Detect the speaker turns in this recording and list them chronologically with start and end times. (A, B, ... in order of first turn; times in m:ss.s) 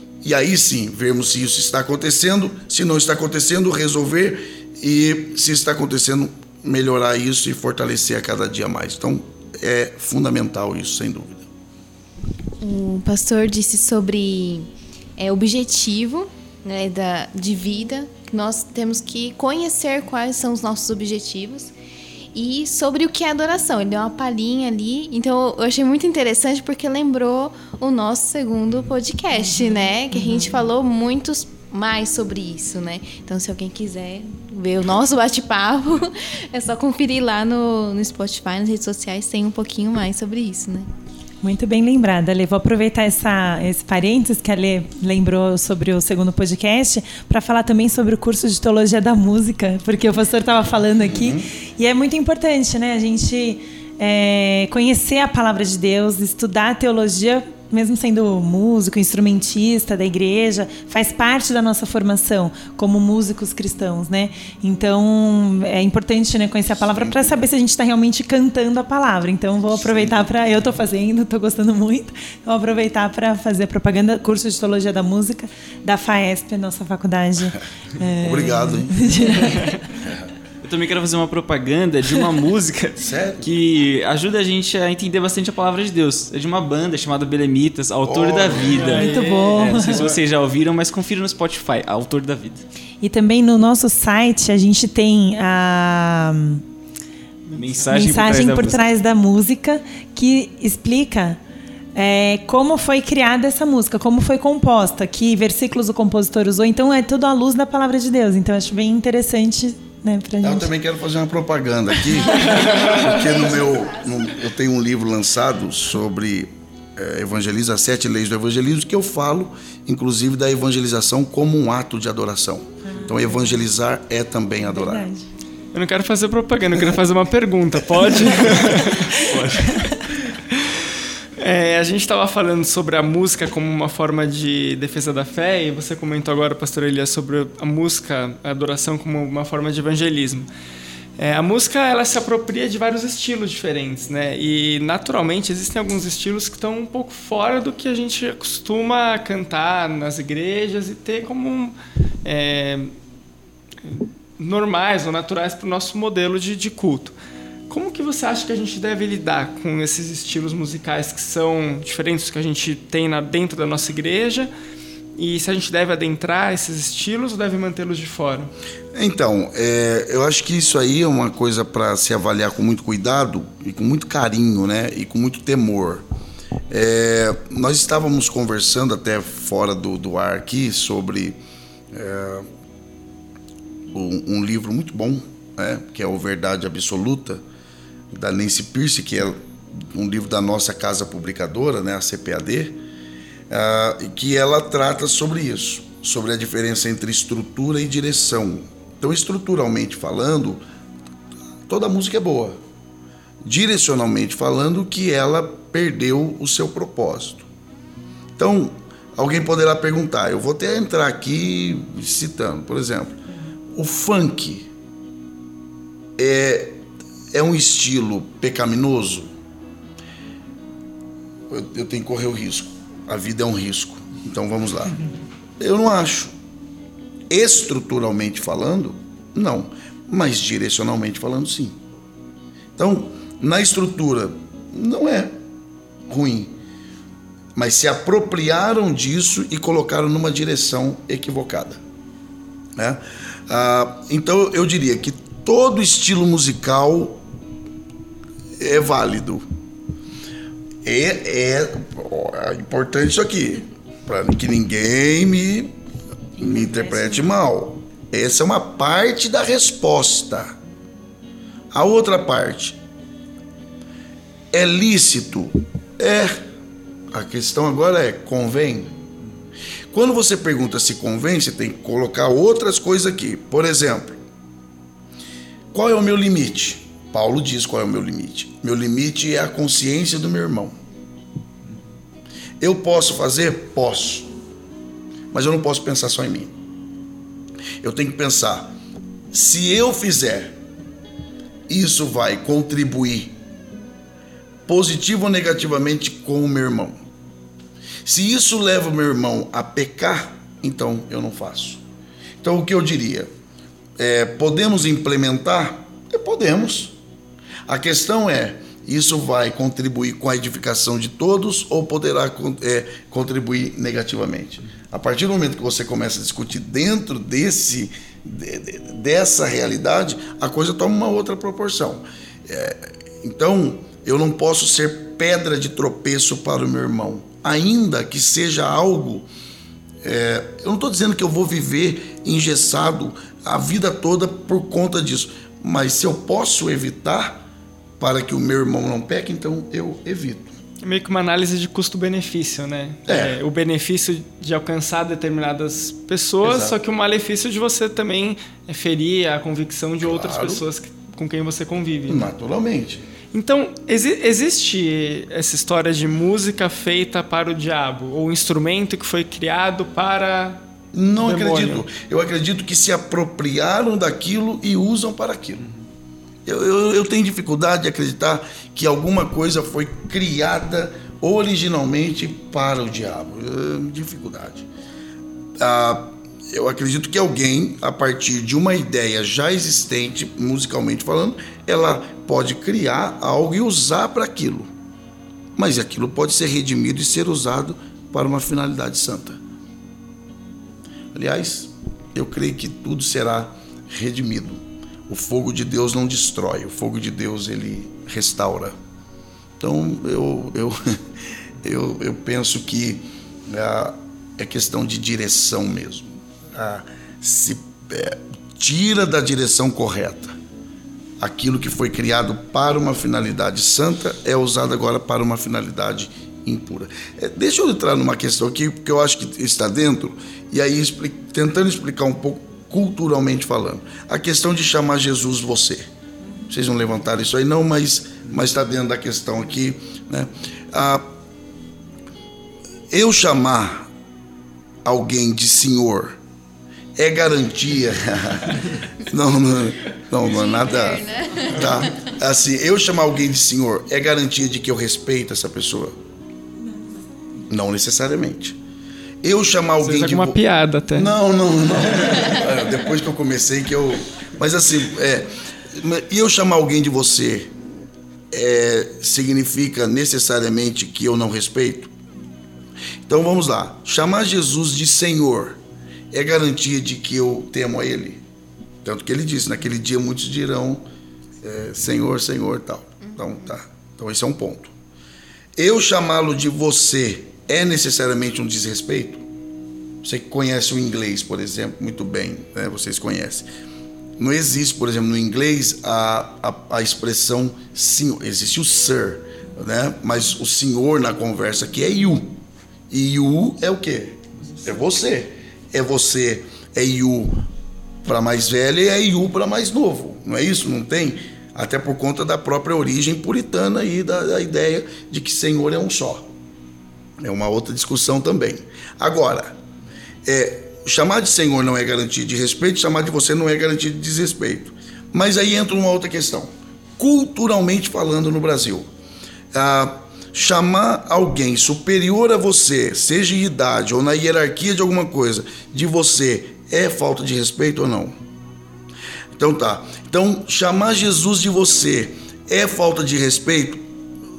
0:00.2-0:11.5 A
0:12.6-0:21.7 B
0:22.3-0:40.9 B
0:41.4-1:19.8 C
0:51.1-0:51.5 A
1:06.9-1:07.4 A
1:09.8-1:10.2 A
1:18.2-1:19.0 A
1:20.6-1:32.6 D
1:23.0-1:23.5 A
1:28.0-1:28.9 A
1:28.8-1:30.2 E
1:28.9-1:30.0 C
1:33.0-1:36.6 C
1:37.5-1:37.9 E
1:37.5-1:38.9 D
1:37.9-1:41.4 C
1:42.0-1:50.7 C
1:50.4-2:05.1 A
1:52.5-1:52.8 E
2:02.9-2:03.2 C
2:04.7-2:05.3 C
2:05.7-2:09.7 E
2:09.1-2:09.9 D
2:11.4-2:20.5 E
2:21.2-2:33.0 E
2:33.8-2:37.2 E
2:37.7-2:44.5 E
2:45.2-2:48.5 E
2:48.9-2:56.0 A
2:56.7-3:01.4 A
3:01.9-3:02.5 A
3:03.9-3:07.4 A
3:08.1-3:12.8 A
3:13.5-3:20.6 A
3:21.7-3:22.6 A
3:23.4-3:27.5 A
3:28.4-3:33.2 A
3:33.7-3:34.7 A
3:36.2-3:39.3 A
3:41.5-3:45.0 A
3:45.6-3:46.3 A
3:47.3-3:51.8 A
3:52.8-3:55.3 A
3:56.1-3:56.6 A
3:57.6-4:01.8 A
4:02.8-4:07.2 A
4:08.6-4:09.4 A
4:10.8-4:15.7 A
4:16.4-4:20.6 A
4:21.7-4:22.8 A
4:24.5-4:26.4 A
4:27.1-4:29.0 A
4:29.9-4:34.2 A
4:35.7-4:40.8 A
4:42.6-4:44.3 A
4:45.3-4:46.5 A
4:47.8-4:48.8 A
4:49.3-4:50.6 A
4:51.7-4:53.4 A
4:54.7-4:57.0 A
4:58.0-5:01.8 A
5:02.4-5:03.3 A
5:04.0-5:07.0 A
5:07.7-5:29.3 A
5:30.0-5:37.4 A
5:38.0-5:40.6 A
5:40.8-5:52.3 E
5:43.1-5:43.4 A
5:46.4-5:46.8 A
5:50.0-5:50.6 A
5:52.1-5:53.0 A
5:53.3-6:00.6 E
6:00.9-6:05.6 A
6:01.2-6:01.8 E
6:06.5-6:14.7 A
6:15.6-6:24.7 A
6:25.6-6:29.4 A
6:31.1-6:38.8 A
6:39.6-6:41.0 A
6:41.6-6:50.4 A
6:51.2-7:05.9 A
7:06.5-7:11.1 A
7:12.9-7:13.9 A
7:14.8-7:16.2 A
7:17.0-7:26.0 A
7:20.2-7:21.9 B
7:27.5-7:28.6 A
7:29.2-7:30.4 A
7:29.8-7:31.1 E
7:30.9-7:37.5 A
7:38.3-7:41.9 A
7:43.1-7:45.6 A
7:46.1-7:48.2 A
7:48.8-7:50.8 A
7:51.4-7:54.7 A
7:55.6-7:59.2 A
8:00.0-8:03.5 A
8:04.2-8:12.4 A
8:12.9-8:17.4 A
8:18.0-8:26.3 A
8:27.2-8:29.6 A
8:30.2-8:38.9 A
8:39.5-8:48.2 A
8:49.4-8:53.8 A